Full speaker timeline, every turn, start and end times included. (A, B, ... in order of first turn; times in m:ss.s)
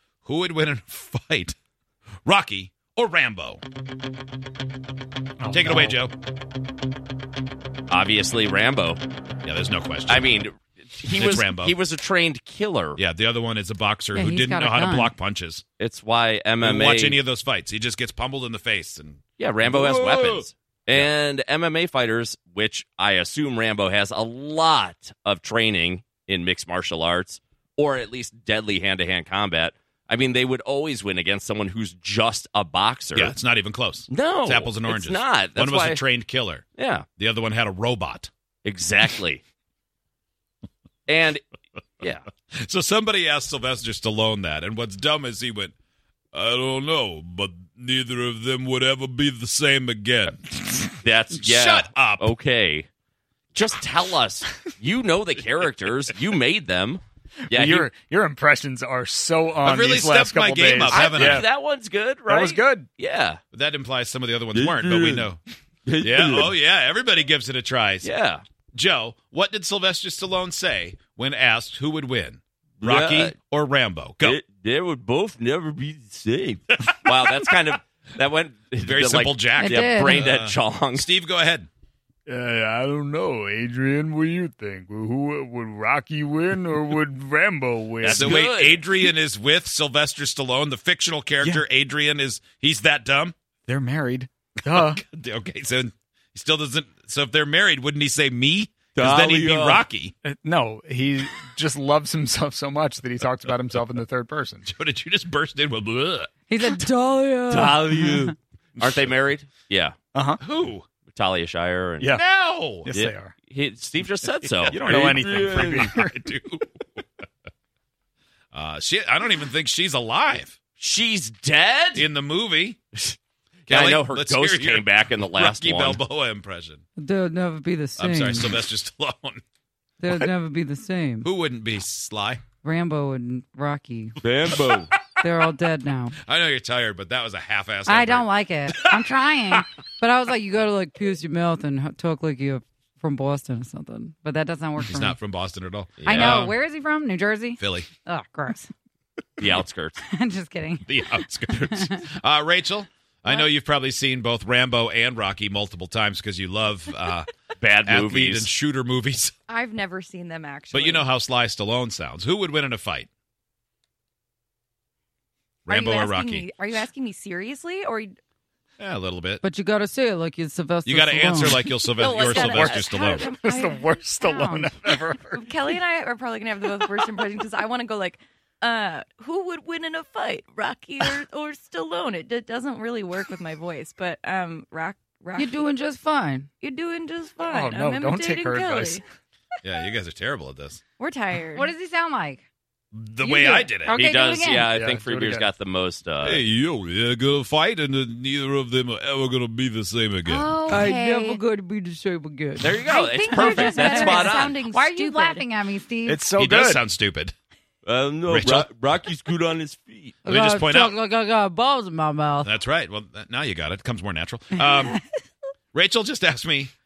0:00.2-0:01.6 A
0:02.2-0:03.6 A
0:05.4-0:06.0 B
0:05.5-0:06.1 A
0:07.9-0:09.0 C
0:09.4-0:10.4 A
0:10.1-0:13.0 C
0:11.1-0:11.8 A
0:13.0-0:15.6 A
0:14.1-0:15.1 D
0:15.8-0:17.2 C
0:16.6-0:21.1 A
0:19.4-0:33.4 C
0:33.2-0:38.3 A
0:34.1-0:36.0 C
0:36.8-0:37.1 C
0:38.6-0:39.4 C
0:41.1-0:41.4 C
0:42.0-0:42.3 C
0:42.5-0:45.7 A
0:46.3-0:52.3 A
0:51.0-0:52.9 C
0:53.5-0:57.9 C
0:57.5-1:01.5 B
0:59.6-1:01.4 A
1:00.9-1:03.4 C
1:02.3-1:02.9 B
1:03.5-1:05.4 A
1:04.5-1:05.3 C
1:05.9-1:06.5 C
1:06.0-1:08.1 A
1:08.0-1:08.4 C
1:08.7-1:14.4 A
1:12.8-1:13.4 C
1:14.2-1:21.1 C
1:18.8-1:21.7 A
1:19.6-1:20.3 D
1:22.3-1:28.4 B
1:28.0-1:28.9 C
1:28.1-1:33.4 A
1:31.4-1:31.7 B
1:33.7-1:35.0 B
1:34.6-1:40.2 A
1:39.0-1:39.8 C
1:40.2-1:44.7 B
1:44.7-1:46.3 A
1:46.5-1:48.3 D
1:47.5-1:50.0 C
1:50.1-1:50.4 B
1:50.4-1:50.8 A
1:51.1-1:52.1 C
1:52.0-1:53.3 B
1:52.1-1:52.9 A
1:52.9-1:55.9 C
1:54.2-1:57.0 A
1:54.7-1:56.2 B
1:58.5-2:00.6 A
2:00.8-2:02.1 C
2:02.0-2:02.8 A
2:03.7-2:06.0 C
2:03.7-2:06.8 A
2:07.0-2:08.6 D
2:08.0-2:09.4 A
2:10.0-2:11.3 D
2:11.2-2:12.4 A
2:12.6-2:14.2 D
2:14.2-2:14.9 C
2:15.2-2:16.2 D
2:16.2-2:19.0 A
2:17.9-2:25.2 D
2:24.8-2:26.6 A
2:26.0-2:26.5 C
2:26.0-2:28.7 D
2:27.6-2:27.9 A
2:29.4-2:30.0 C
2:30.0-2:32.0 D
2:30.9-2:37.3 A
2:37.6-2:38.5 C
2:37.8-2:39.3 A
2:39.5-2:41.1 E
2:40.7-2:43.1 A
2:45.7-2:46.5 A
2:45.7-2:48.1 E
2:48.8-2:49.4 A
2:49.4-2:51.7 D
2:50.9-2:53.3 A
2:52.0-2:54.6 E
2:52.2-2:55.5 B
2:55.3-3:05.6 E
3:05.4-3:06.5 D
3:06.6-3:09.0 E
3:07.5-3:09.0 B
3:09.6-3:10.8 A
3:11.0-3:11.7 E
3:11.6-3:12.4 D
3:12.9-3:14.0 A
3:13.2-3:14.7 D
3:13.9-3:16.4 C
3:14.6-3:15.5 B
3:16.2-3:20.5 A
3:20.3-3:21.4 E
3:20.7-3:26.2 D
3:22.6-3:24.6 C
3:23.6-3:25.5 E
3:26.1-3:26.9 B
3:26.4-3:27.3 A
3:27.8-3:30.2 C
3:28.3-3:28.7 A
3:30.2-3:32.5 D
3:30.3-3:31.0 A
3:32.4-3:35.0 A
3:34.6-3:35.0 D
3:35.7-3:36.7 A